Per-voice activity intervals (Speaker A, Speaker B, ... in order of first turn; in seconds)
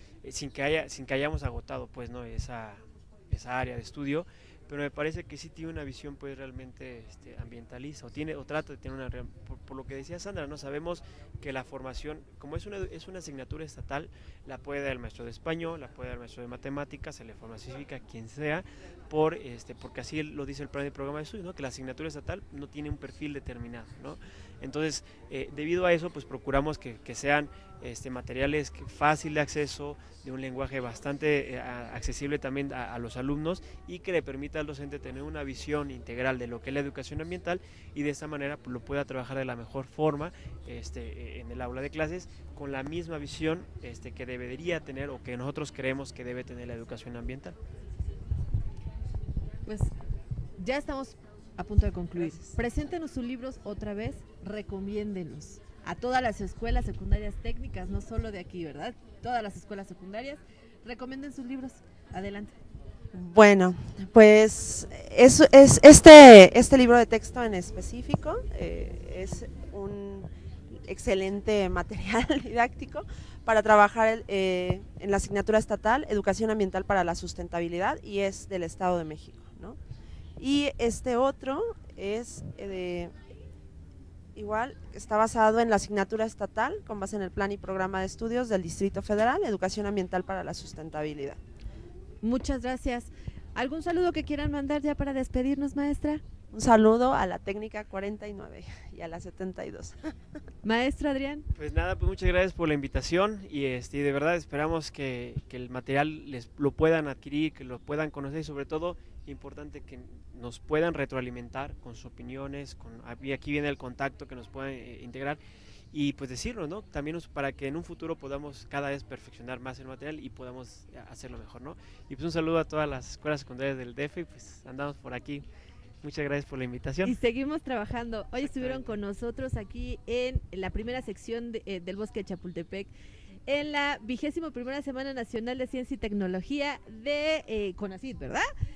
Speaker A: 0.2-47.6, 101.5-115.4, 115.9-125.5, 126.0-127.2, 128.4-129.0
Speaker B: 50.6-62.5, 92.2-96.2, 100.6-101.5, 127.0-132.9, 133.5-138.5
Speaker C: 52.2-52.6, 63.1-79.8, 80.4-83.1, 84.4-91.4, 96.5-100.0